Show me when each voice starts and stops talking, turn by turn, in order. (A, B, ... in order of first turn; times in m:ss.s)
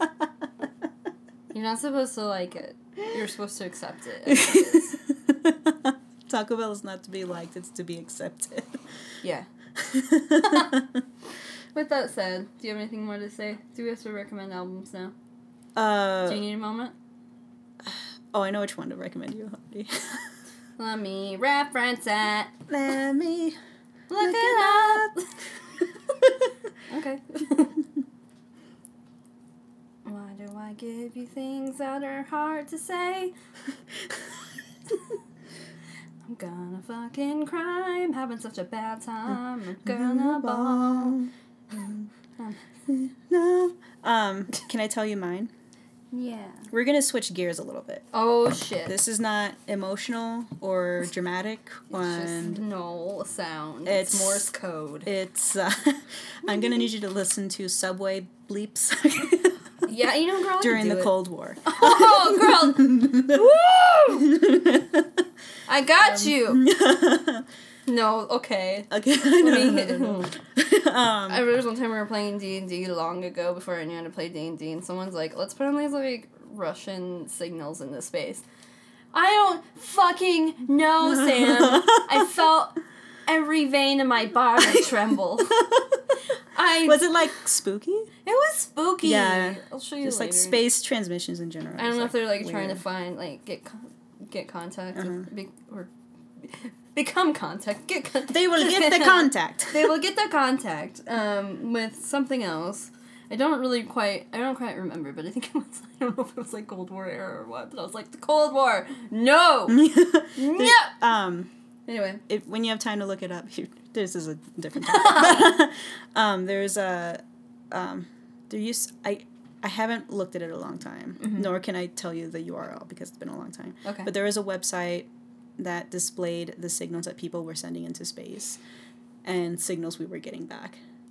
0:01.5-0:05.0 A
0:04.2-0:08.8 B
0:09.7-0:10.9 B
0:10.3-0:10.8 A
0:11.7-0:15.1 A
0:15.8-0:16.5 B
0:16.2-0:16.9 A
0:17.8-0:20.3 B
0:20.8-0:22.5 A
0:22.7-0:23.6 B
0:24.1-0:25.3 A
0:24.2-0:25.1 B
0:26.9-0:27.8 A
0:30.0-0:33.3 A
0:36.2-0:41.2 A
0:39.3-0:42.1 B
0:42.9-0:45.5 B
0:46.1-0:46.7 A
0:46.7-0:48.0 B
0:48.1-0:49.0 A
0:48.8-0:52.6 B
0:51.9-0:55.1 A
0:53.8-0:54.5 B
0:55.0-0:59.6 B
0:56.4-0:56.8 A
0:59.8-1:04.3 A
1:00.6-1:05.2 B
1:05.7-1:06.6 A
1:06.0-1:07.4 B
1:07.8-1:10.3 A
1:08.9-1:11.4 B
1:11.3-1:18.4 A
1:19.1-1:25.7 A
1:21.2-1:22.2 B
1:25.6-1:25.8 B
1:26.5-1:27.1 A
1:26.8-1:28.1 B
1:28.2-1:30.6 A
1:29.0-1:32.8 B
1:31.8-1:50.9 A
1:34.9-1:35.3 B
1:38.3-1:39.9 B
1:49.7-1:51.5 B
1:51.9-1:52.2 A
1:52.3-2:08.6 B
1:54.8-1:55.6 A
2:01.2-2:01.5 A
2:03.8-2:04.1 A
2:09.2-2:10.8 B